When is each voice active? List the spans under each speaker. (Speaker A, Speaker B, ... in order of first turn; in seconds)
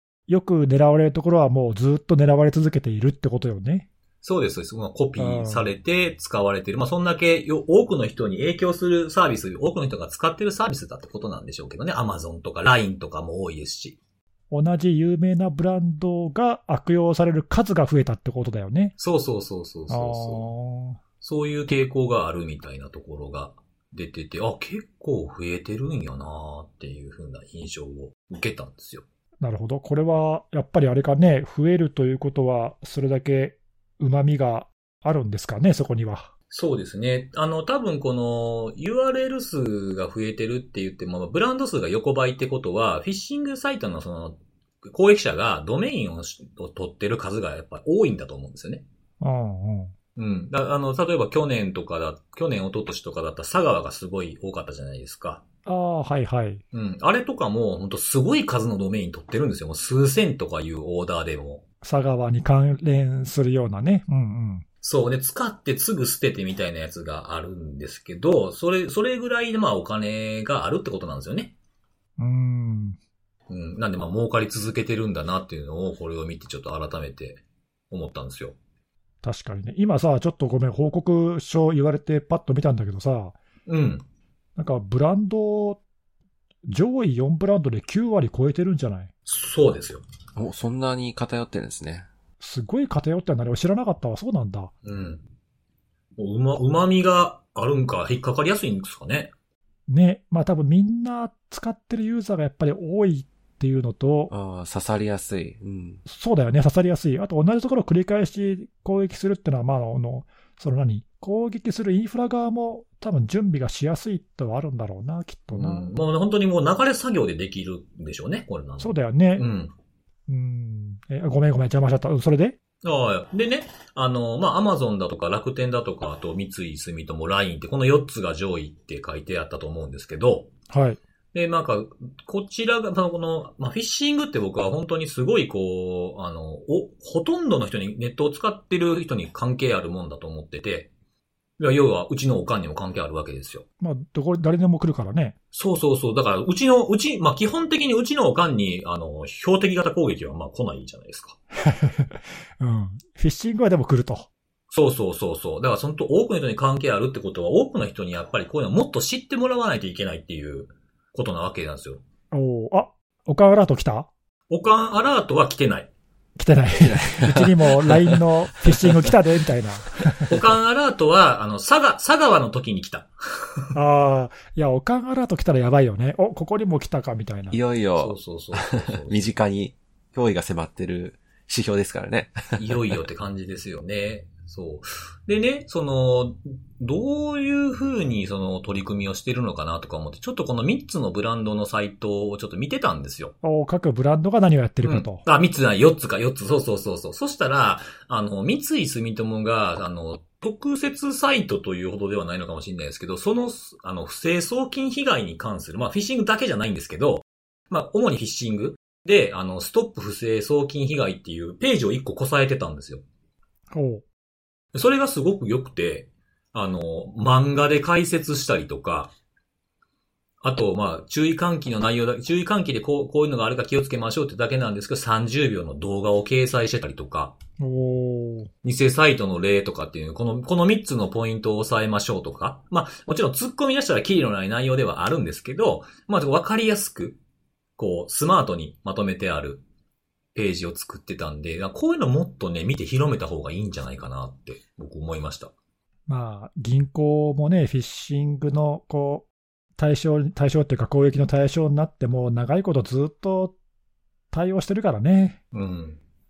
Speaker A: 0.3-3.9, 5.2-5.7, 14.5-18.9, 19.9-21.0, 29.4-36.3, 49.2-49.9, 55.6-56.6, 61.8-64.6, 72.2-73.0, 79.2-83.4, 84.6-85.8, 86.7-89.1, 92.4-94.7, 99.9-104.3, 106.0-115.8, 118.8-119.4, 120.3-122.6, 130.7-131.0, 143.8-145.3, 151.6-154.3, 162.3-164.1, 166.4-170.3, 173.7-177.6, 193.4-195.2, 213.7-214.0, 227.6-228.5, 246.1-253.5, 254.3-255.4
Speaker B: 4.2-14.0, 19.0-20.5, 21.2-29.0, 36.5-48.8, 50.1-55.4, 56.7-61.6, 64.8-71.5, 73.5-78.5, 83.7-84.0, 89.2-90.0, 94.8-95.2, 96.2-99.3, 115.5-119.7, 122.8-130.5, 131.3-140.9, 141.6-143.6, 145.5-151.4, 154.7-162.0, 164.5-165.9, 170.2-173.7, 178.0-179.2, 182.6-193.3, 194.8-213.0, 214.7-219.1, 220.4-227.4, 228.6-237.2, 237.8-239.6, 240.3-245.5, 255.5-256.0
Speaker C: 90.3-92.1, 104.3-106.0, 166.8-168.2, 168.8-169.1, 177.5-183.0